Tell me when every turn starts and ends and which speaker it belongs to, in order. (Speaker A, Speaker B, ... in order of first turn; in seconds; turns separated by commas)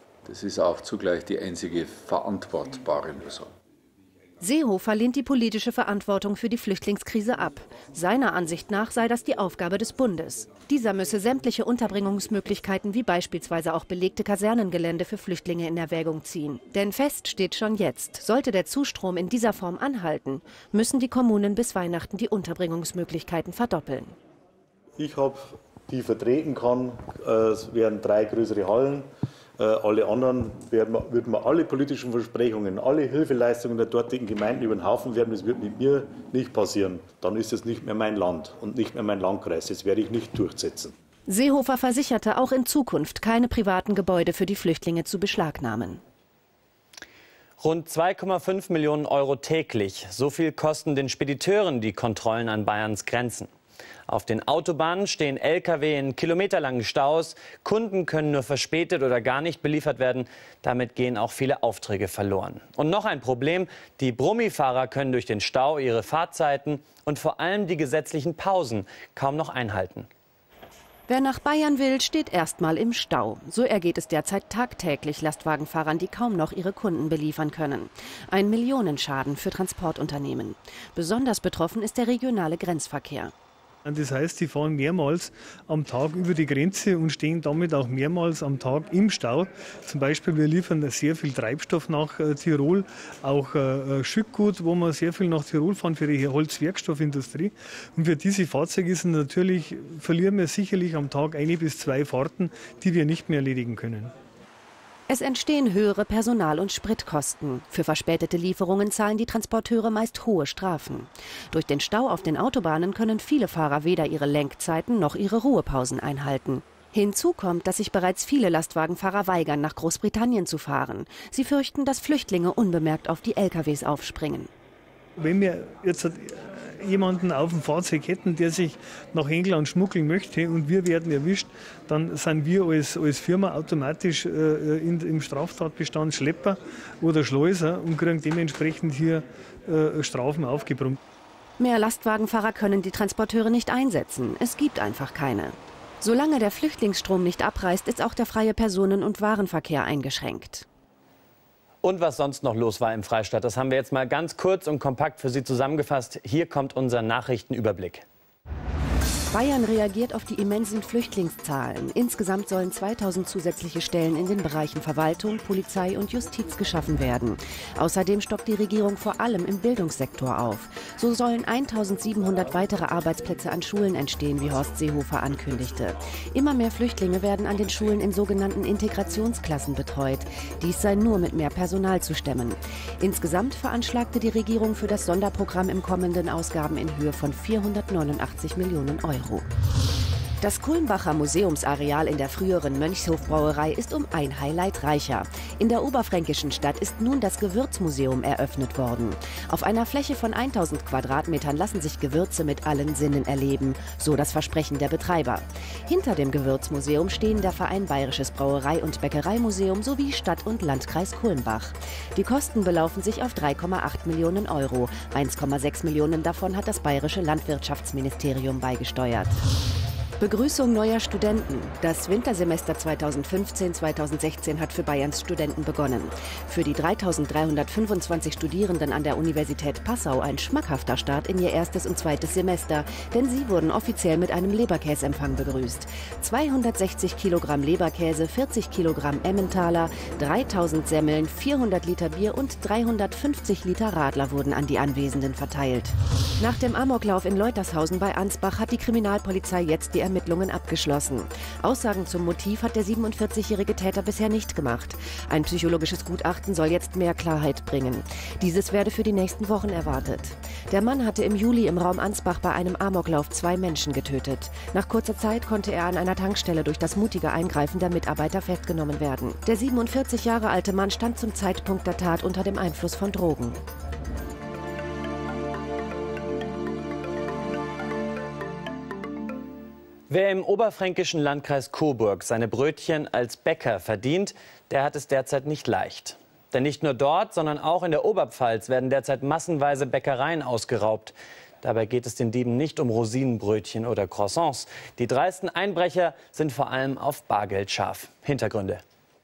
Speaker A: 0.3-3.0, Speaker B: 4.4-24.1, Speaker C: 25.0-40.9, Speaker B: 41.3-46.0, Speaker D: 47.6-53.5, Speaker D: 54.1-70.1, Speaker B: 71.1-83.3, Speaker E: 83.8-104.1, Speaker B: 105.1-124.5, Speaker E: 125.2-141.0, Speaker B: 141.6-150.7, Speaker D: 151.8-158.1, Speaker B: 159.3-189.5, Speaker B: 190.4-219.4, Speaker B: 220.2-273.6, Speaker D: 280.1-298.8